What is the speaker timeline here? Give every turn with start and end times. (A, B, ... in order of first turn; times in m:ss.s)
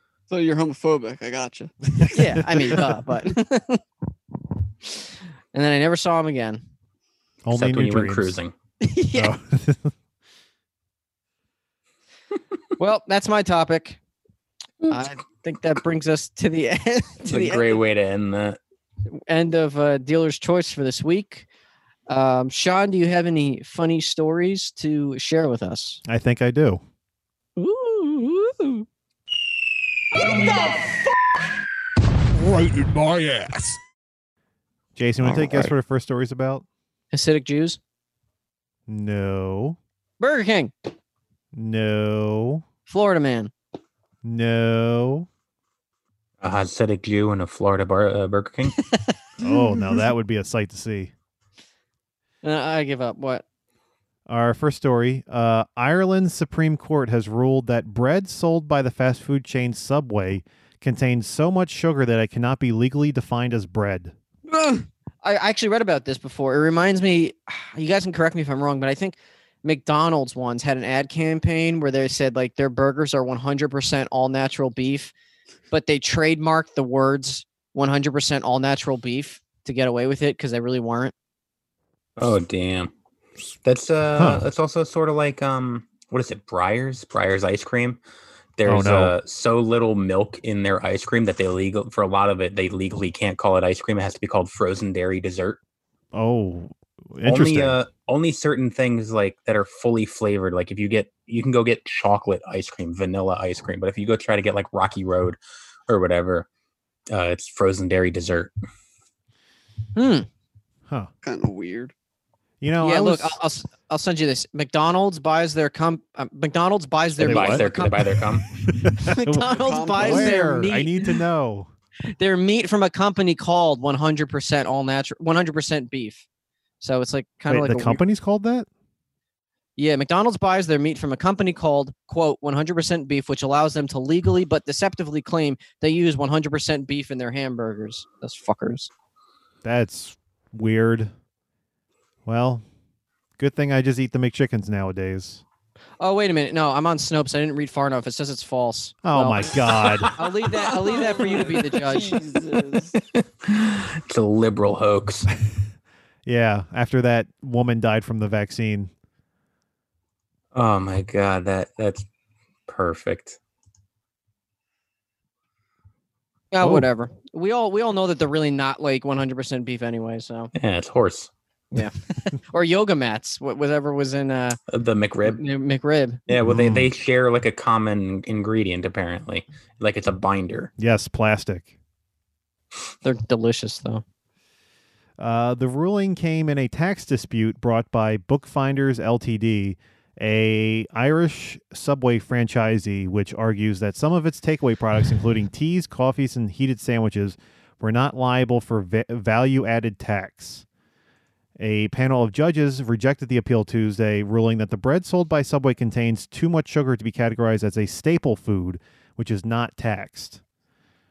0:00.3-0:02.8 A
0:02.1-0:03.8 B
0:05.5-0:06.6 B
0:07.4-0:08.4 C
0:07.5-0:08.5 D
0:08.8-0:09.3 B
0:09.1-0:09.9 C
0:12.8-0:14.0 B
0:14.8-0:17.8 B
0:17.3-0:18.6 D
0:19.3-0:21.5 B
0:22.1-0:26.0 B
0:26.0-0:26.8 C
0:27.6-0:28.8 B
0:30.1-0:31.1 E
0:32.3-0:33.8 E
0:35.0-0:36.6 C
0:37.1-0:37.8 B
0:38.9-0:39.8 C
0:40.2-0:40.7 B
0:41.5-0:42.6 C
0:42.9-0:43.5 B
0:44.2-0:45.3 C
0:46.4-0:48.8 D
0:49.4-0:51.1 C
0:52.4-0:53.4 B
0:54.3-1:04.1 C
1:04.5-1:15.1 B
1:15.7-1:21.1 B
1:22.2-1:22.9 D
1:23.6-1:28.0 D
1:24.2-1:24.5 C
1:28.6-1:35.6 D
1:28.6-1:29.1 C
1:36.1-1:37.8 C
1:37.2-1:46.5 D
1:47.1-1:48.5 D
1:49.9-1:50.3 B
1:51.2-1:51.9 A
1:52.6-1:53.4 C
1:52.8-1:58.0 B
1:57.2-1:57.7 C
1:57.2-1:58.5 D
1:58.7-2:01.7 C
1:59.0-2:01.0 B
1:59.4-2:00.4 A
2:02.2-2:06.2 B
2:06.8-2:08.0 B
2:07.5-2:08.7 C
2:09.8-2:18.9 B
2:19.6-2:21.1 C
2:22.2-2:22.6 C
2:23.4-2:25.4 C
2:26.0-2:32.2 B
2:29.0-2:30.1 C
2:29.8-2:30.1 D
2:30.8-2:32.9 A
2:32.9-2:35.3 D
2:36.2-2:38.9 C
2:40.5-2:42.0 D
2:42.7-2:43.4 D
2:46.5-2:50.5 B
2:46.6-2:46.9 C
2:50.5-2:51.3 D
2:51.7-2:54.6 B
2:54.7-2:55.4 D
2:55.3-2:56.2 B
2:56.3-3:00.7 D
2:56.4-2:56.9 C
3:00.8-3:01.7 C
3:03.0-3:04.0 B
3:05.2-3:20.6 C
3:21.6-3:30.4 C